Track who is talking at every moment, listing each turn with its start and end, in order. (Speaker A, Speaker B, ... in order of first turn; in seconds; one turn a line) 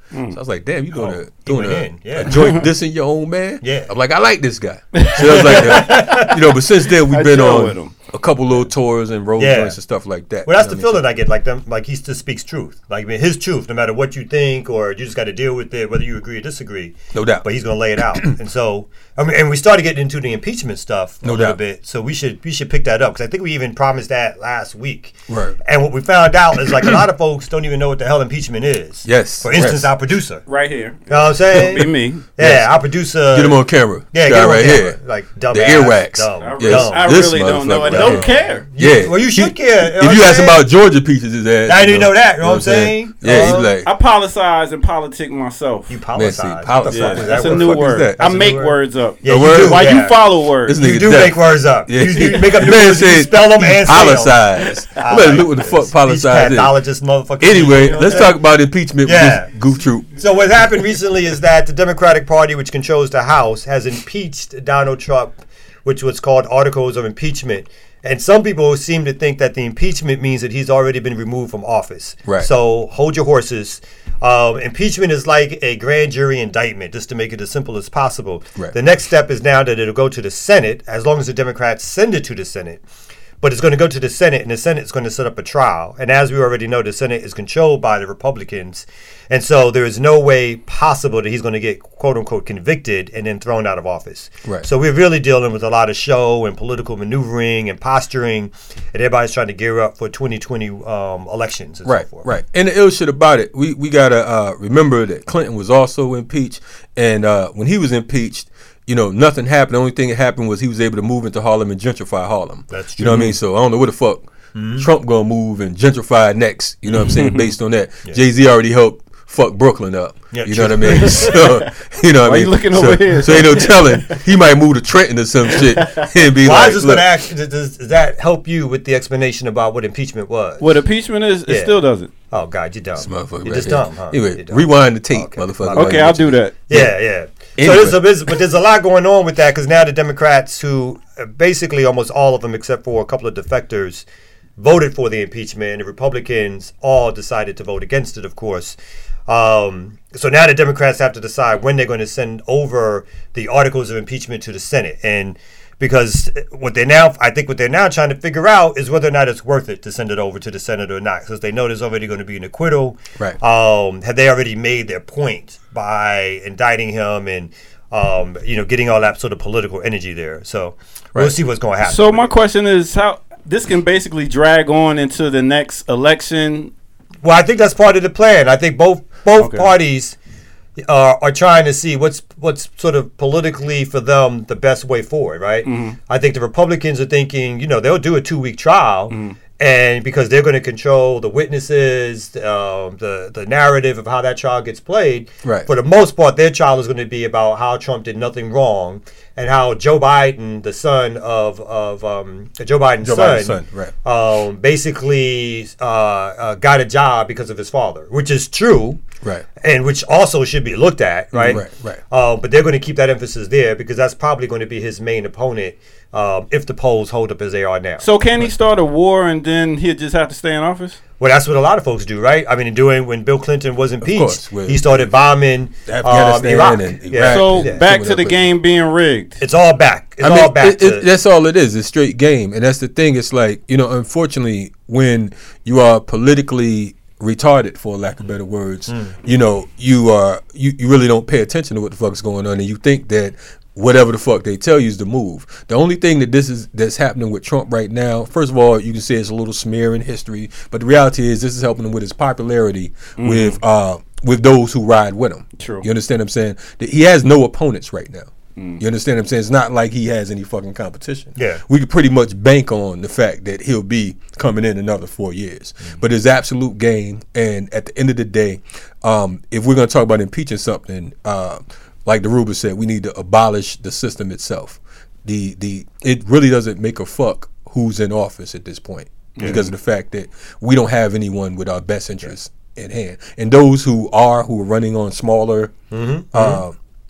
Speaker A: 0.1-0.4
Speaker B: 0.3-11.0
Speaker C: 0.9-2.6
Speaker A: 2.3-2.6
Speaker C: 3.6-3.9
Speaker A: 4.9-6.2
Speaker C: 5.2-6.4
Speaker A: 7.1-7.9
Speaker C: 9.4-9.8
Speaker C: 10.4-30.4
Speaker B: 17.1-17.4
Speaker B: 21.2-21.6
Speaker B: 25.3-25.6
Speaker B: 29.1-29.9
Speaker A: 30.5-32.2
Speaker C: 31.1-37.3
Speaker B: 31.5-31.8
Speaker B: 32.4-32.7
Speaker B: 33.3-35.0
Speaker B: 35.5-43.9
Speaker A: 36.4-38.6
Speaker C: 37.9-40.6
Speaker C: 41.7-43.7
Speaker A: 43.7-45.9
Speaker C: 45.9-50.2
Speaker B: 46.1-48.2
Speaker A: 46.9-50.8
Speaker B: 49.2-50.1
Speaker B: 50.6-56.8
Speaker C: 50.8-58.4
Speaker B: 57.4-60.2
Speaker C: 59.0-59.5
Speaker C: 60.2-82.8
Speaker C: 83.4-102.3
Speaker B: 101.8-127.1
Speaker C: 112.7-113.3
Speaker A: 113.1-113.3
Speaker C: 114.5-114.9
Speaker A: 117.1-117.5
Speaker C: 120.3-121.4
Speaker A: 120.9-121.7
Speaker A: 122.2-124.2
Speaker A: 125.8-126.1
Speaker C: 126.4-130.7
Speaker A: 130.6-132.1
Speaker C: 131.5-131.8
Speaker C: 132.3-136.1
Speaker B: 133.0-136.9
Speaker A: 135.7-136.5
Speaker C: 136.7-144.0
Speaker B: 137.6-138.3
Speaker C: 144.6-172.3
Speaker A: 171.8-176.7
Speaker C: 177.2-180.2
Speaker A: 179.4-179.7
Speaker C: 180.8-209.0
Speaker A: 185.6-186.0
Speaker A: 189.1-189.4
Speaker B: 195.4-195.7
Speaker B: 203.0-203.9
Speaker C: 209.6-218.0
Speaker B: 211.3-212.0
Speaker A: 218.0-221.0
Speaker C: 221.2-227.8
Speaker B: 224.0-225.1
Speaker B: 225.8-228.5
Speaker A: 227.3-229.4
Speaker C: 229.4-231.1
Speaker B: 230.2-285.7
Speaker C: 238.9-239.1
Speaker A: 253.2-253.6
Speaker A: 255.6-255.8
Speaker A: 258.6-258.8
Speaker C: 261.4-261.6
Speaker A: 279.4-279.6
Speaker C: 279.4-279.6
Speaker C: 285.9-286.6
Speaker B: 286.3-286.7